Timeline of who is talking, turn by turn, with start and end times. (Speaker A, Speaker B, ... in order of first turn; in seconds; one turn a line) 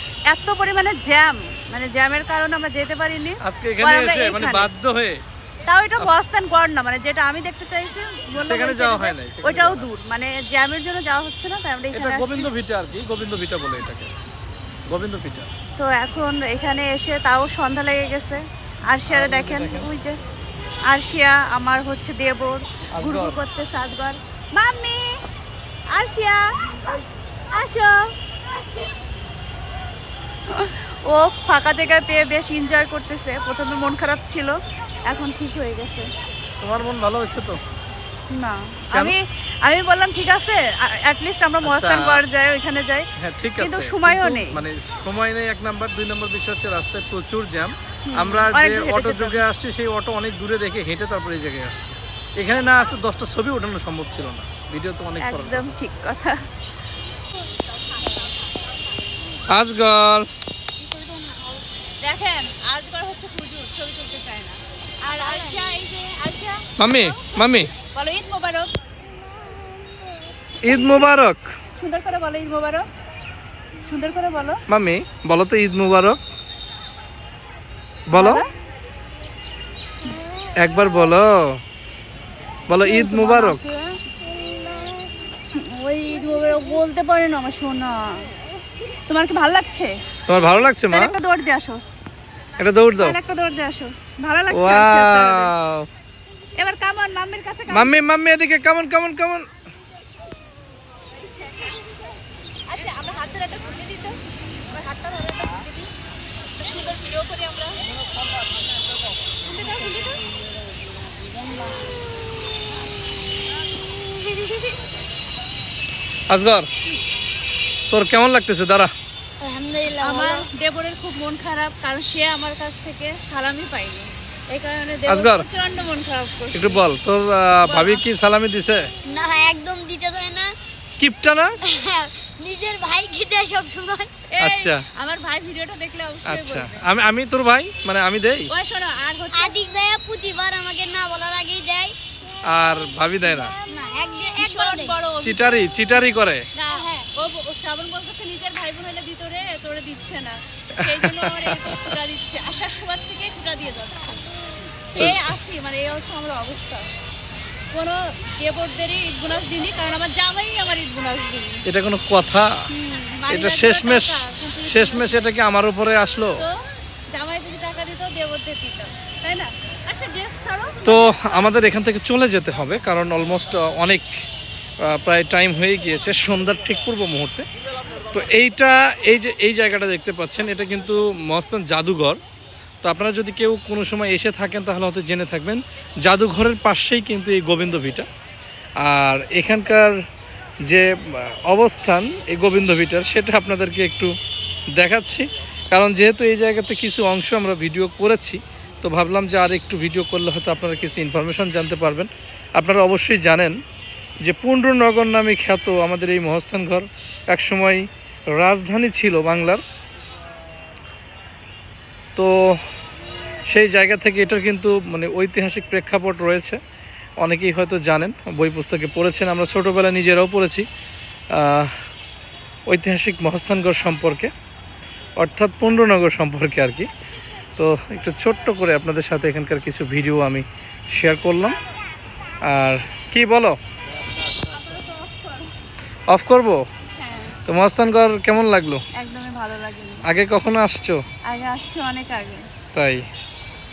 Speaker A: 0.3-4.7
Speaker B: 3.4-5.2
Speaker A: 5.7-12.5
Speaker B: 8.4-9.9
Speaker B: 11.9-14.1
Speaker B: 14.9-15.5
Speaker A: 15.8-18.4
Speaker A: 18.9-20.2
Speaker B: 19.1-19.9
Speaker A: 20.9-25.1
Speaker B: 22.9-23.4
Speaker A: 25.9-26.9
Speaker A: 27.5-28.0
Speaker A: 30.5-36.1
Speaker B: 36.6-37.6
Speaker A: 38.3-43.1
Speaker B: 41.6-42.2
Speaker B: 43.2-55.7
Speaker A: 43.6-44.6
Speaker A: 48.1-49.4
Speaker A: 55.2-56.4
Speaker B: 59.5-60.3
Speaker A: 60.8-68.7
Speaker C: 65.1-65.7
Speaker B: 66.8-67.7
Speaker B: 70.6-71.4
Speaker A: 70.7-71.1
Speaker A: 71.8-72.9
Speaker A: 73.8-74.6
Speaker B: 74.7-76.2
Speaker B: 78.1-78.4
Speaker A: 78.1-78.5
Speaker C: 80.2-80.5
Speaker B: 80.5-81.6
Speaker B: 82.7-83.6
Speaker A: 82.8-84.0
Speaker A: 85.5-88.3
Speaker A: 89.1-90.0
Speaker B: 90.3-91.2
Speaker A: 90.9-91.8
Speaker B: 92.6-93.2
Speaker A: 93.0-95.5
Speaker B: 94.5-95.9
Speaker A: 96.6-98.0
Speaker B: 97.7-99.5
Speaker A: 101.4-102.0
Speaker A: 102.7-104.2
Speaker A: 104.7-105.9
Speaker A: 106.6-107.8
Speaker A: 109.5-110.2
Speaker C: 109.5-112.0
Speaker A: 114.3-114.7
Speaker B: 116.3-116.7
Speaker B: 117.9-118.9
Speaker C: 119.4-120.5
Speaker A: 120.0-126.8
Speaker B: 125.1-125.5
Speaker B: 126.5-128.9
Speaker A: 127.7-128.0
Speaker C: 129.1-130.6
Speaker B: 131.0-131.6
Speaker C: 131.7-134.1
Speaker A: 134.3-136.9
Speaker B: 134.4-134.8
Speaker B: 136.3-138.5
Speaker A: 138.5-139.6
Speaker C: 139.3-142.0
Speaker B: 142.5-143.5
Speaker C: 143.2-145.0
Speaker A: 144.3-145.9
Speaker B: 145.2-146.4
Speaker A: 146.6-156.9
Speaker B: 150.8-152.0
Speaker B: 155.0-155.3
Speaker A: 157.7-161.6
Speaker B: 161.7-162.7
Speaker A: 162.7-165.3
Speaker B: 163.3-166.4
Speaker A: 167.1-171.5
Speaker B: 170.8-174.1
Speaker B: 174.8-177.5
Speaker B: 178.1-182.2
Speaker B: 182.8-188.1
Speaker B: 188.8-189.9
Speaker B: 190.7-194.1
Speaker B: 194.8-203.6
Speaker B: 204.2-207.8
Speaker B: 208.4-209.6
Speaker B: 212.2-212.6
Speaker B: 213.5-216.6
Speaker B: 217.2-220.7
Speaker B: 221.3-221.7
Speaker B: 222.7-224.3
Speaker B: 225.2-226.9
Speaker B: 227.6-231.6
Speaker B: 232.5-233.6
Speaker A: 234.5-235.5
Speaker B: 236.1-236.6
Speaker A: 237.0-237.4
Speaker B: 237.5-238.8
Speaker A: 238.9-240.1
Speaker B: 240.0-241.0
Speaker A: 241.2-242.5
Speaker B: 242.7-243.1